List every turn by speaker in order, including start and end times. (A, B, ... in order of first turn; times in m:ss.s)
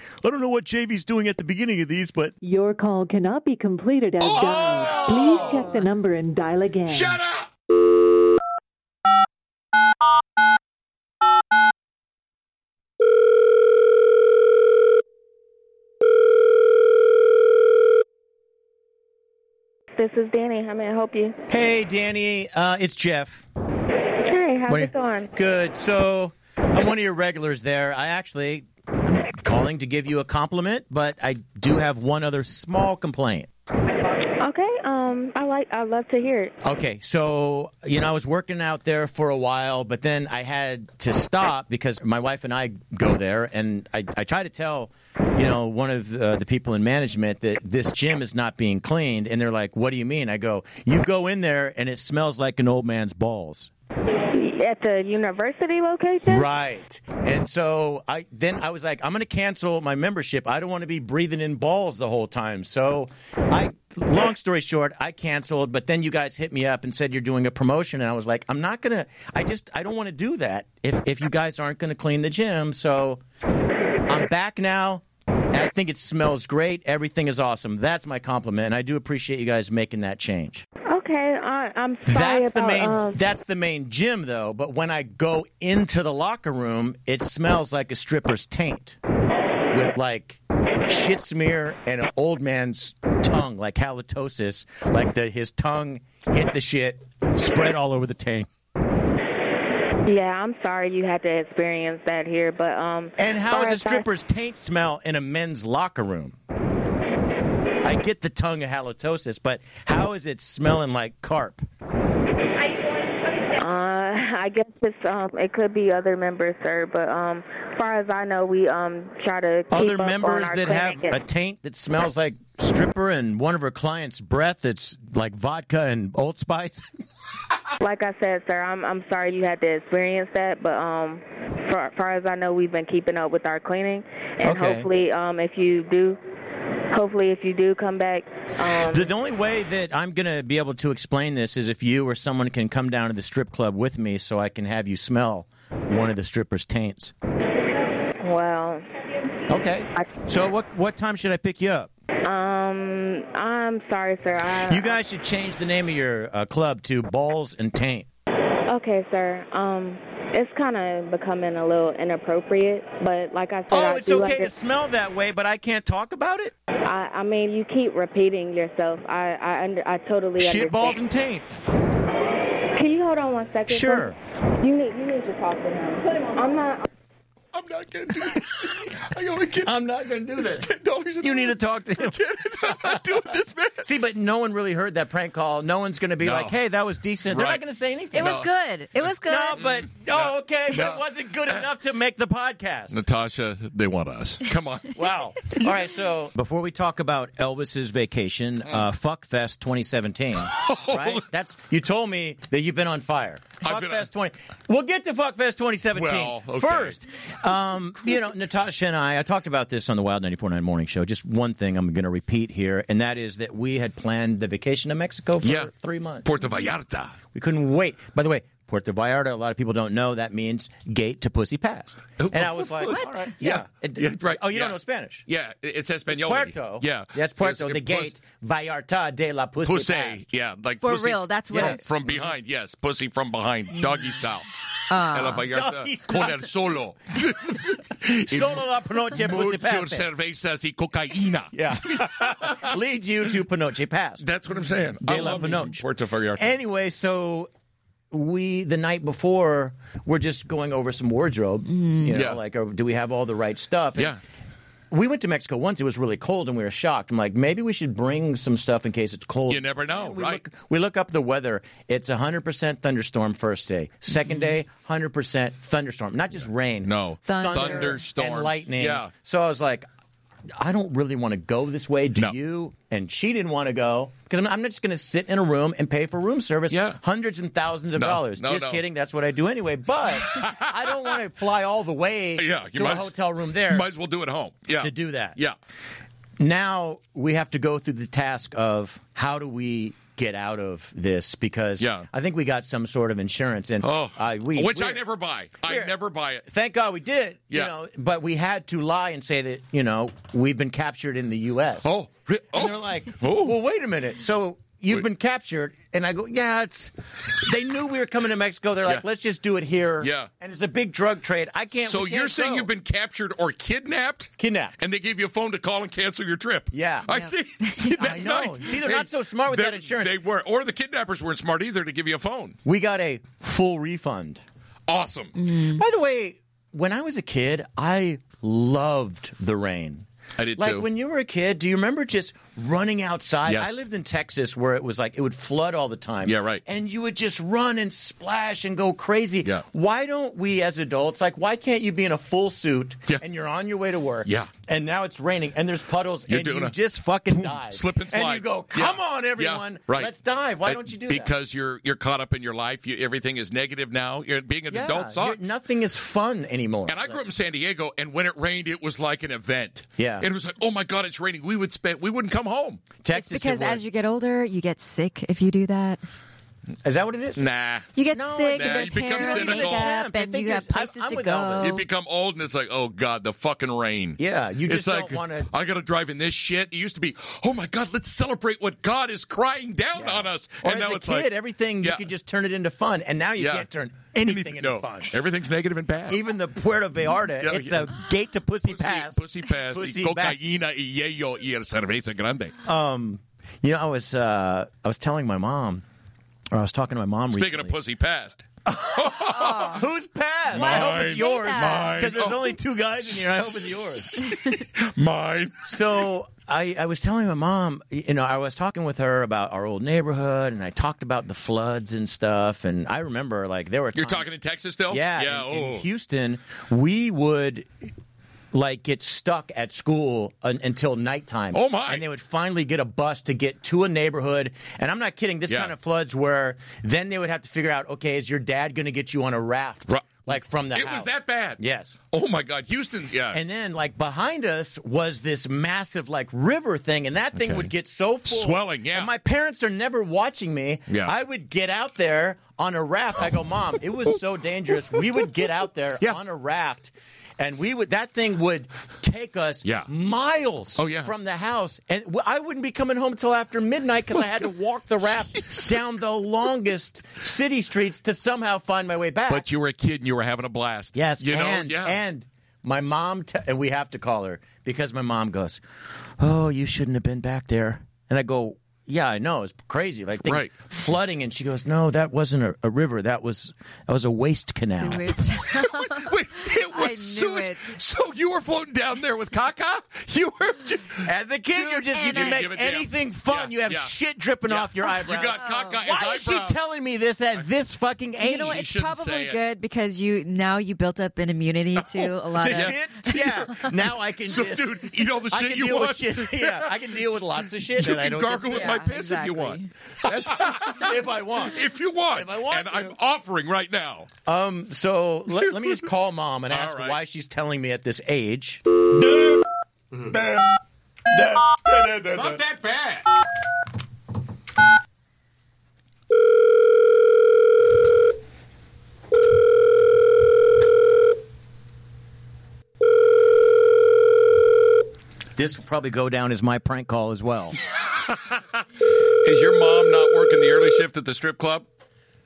0:00.2-0:02.3 A
0:02.4-0:07.2 B
0:04.2-0:05.9 C
0:04.3-0:05.3 A
0:05.4-0:05.8 D
0:06.8-0:07.5 C
0:19.9-0:21.4 E
0:21.5-0:23.4 A
0:24.2-0:25.3 E
0:24.7-0:33.5 A
0:34.4-0:36.6 E
0:36.6-0:53.7 A
0:54.3-0:56.5 E
0:56.3-1:13.2 A
1:14.1-1:20.6 A
1:20.9-1:23.2 E
1:22.1-1:29.0 A
1:29.7-1:38.5 A
1:40.1-1:44.0 E
1:43.2-1:46.4 A
1:47.8-1:51.6 A
1:53.6-2:01.2 E
1:59.7-2:06.8 A
2:07.8-2:16.2 E
2:14.4-2:14.9 A
2:16.9-2:19.1 E
2:18.9-2:27.1 A
2:28.2-2:28.8 E
2:29.5-2:31.9 A
2:32.2-2:35.0 E
2:34.7-2:38.1 A
2:38.7-2:44.5 E
2:43.7-2:46.5 A
2:46.8-2:51.0 E
2:50.4-2:51.5 A
2:52.7-2:56.9 E
2:53.7-2:54.2 A
2:57.5-2:59.8 C
2:59.6-3:03.0 A
3:00.4-3:03.9 C
3:03.8-3:08.5 A
3:06.2-3:06.6 C
3:07.3-3:07.6 C
3:08.1-3:09.7 D
3:08.2-3:08.5 C
3:09.2-3:13.0 A
3:10.1-3:11.6 C
3:12.9-3:15.0 C
3:14.9-3:36.3 A
3:20.5-3:21.2 C
3:23.6-3:24.1 C
3:25.9-3:27.0 C
3:35.4-3:35.7 C
3:36.2-3:37.2 C
3:37.3-3:45.2 A
3:42.2-3:48.1 C
3:42.8-3:43.3 D
3:46.2-3:50.2 A
3:49.6-4:02.8 C
3:50.8-3:51.8 D
3:51.5-3:52.3 A
3:54.9-3:55.4 D
3:55.4-3:56.5 A
3:58.0-4:00.1 A
4:01.5-4:04.2 A
4:04.2-4:06.6 C
4:05.0-4:05.8 A
4:06.4-4:07.5 A
4:08.1-4:14.1 A
4:11.8-4:12.0 D
4:12.1-4:12.4 C
4:13.9-4:14.2 C
4:14.9-4:29.9 A
4:19.5-4:20.4 C
4:26.8-4:29.1 C
4:27.2-4:28.0 D
4:30.6-4:43.9 A
4:36.7-4:37.0 C
4:38.0-4:38.8 C
4:40.3-4:41.2 C
4:42.4-4:45.6 C
4:44.8-4:45.4 A
4:46.4-4:55.0 A
4:51.8-4:52.1 C
4:53.8-4:56.4 C
4:55.6-4:55.9 A
4:56.4-5:01.9 A
5:01.8-5:03.6 C
5:02.5-5:12.7 A
5:10.0-5:10.3 C
5:11.8-5:22.6 C
5:14.4-5:14.8 A
5:16.7-5:17.2 A
5:17.7-5:17.9 D
5:17.8-5:20.2 A
5:22.6-5:24.4 A
5:24.9-5:25.4 C
5:25.4-5:25.8 D
5:25.7-5:30.1 A
5:30.4-5:30.9 C
5:30.6-5:51.3 A
5:33.4-5:33.8 C
5:36.2-5:36.6 C
5:44.2-5:44.5 C
5:46.3-5:46.8 C
5:47.3-5:50.1 C
5:50.6-5:55.5 C
5:54.7-5:57.2 A
5:56.8-6:02.8 C
6:00.0-6:00.3 A
6:03.0-6:03.8 A
6:03.1-6:06.0 D
6:06.8-6:07.4 A
6:07.4-6:08.0 C
6:07.9-6:11.8 D
6:08.1-6:11.8 A
6:08.5-6:10.0 C
6:11.6-6:22.0 C
6:14.2-6:15.5 A
6:20.0-6:25.2 A
6:23.4-6:23.7 C
6:24.2-6:26.2 C
6:26.1-6:30.4 A
6:27.4-6:27.9 C
6:28.6-6:32.6 C
6:32.6-6:35.8 A
6:36.5-6:37.8 A
6:37.3-6:39.8 C
6:38.7-6:44.3 A
6:39.3-6:39.8 D
6:40.5-6:46.0 C
6:40.5-6:42.0 D
6:45.6-6:54.3 A
6:53.9-6:55.9 C
6:54.9-6:57.7 A
6:58.5-7:12.0 A
7:01.5-7:02.0 C
7:05.5-7:05.7 C
7:09.9-7:13.4 C
7:13.3-7:39.4 A
7:17.3-7:17.7 C
7:18.3-7:19.1 C
7:20.9-7:21.2 C
7:29.6-7:29.9 C
7:30.8-7:31.1 C
7:35.4-7:35.8 C
7:39.3-7:42.0 C
7:40.9-7:45.6 A
7:46.2-7:55.2 A
7:50.2-7:50.5 C
7:54.7-7:57.8 D
7:55.5-8:03.9 C
8:01.0-8:08.6 A
8:01.9-8:02.4 D
8:04.4-8:06.6 C
8:05.3-8:05.8 D
8:08.2-8:12.8 D
8:08.4-8:09.4 C
8:11.8-8:24.1 C
8:12.4-8:18.8 A
8:18.5-8:19.7 D
8:20.0-8:23.0 A
8:24.2-8:29.4 A
8:25.4-8:25.8 C
8:26.5-8:27.0 C
8:30.0-8:30.4 A
8:30.0-8:30.4 C
8:31.1-8:32.4 A
8:32.0-8:33.1 C
8:45.4-8:47.6 A
8:47.8-8:48.6 C
8:49.2-8:51.7 C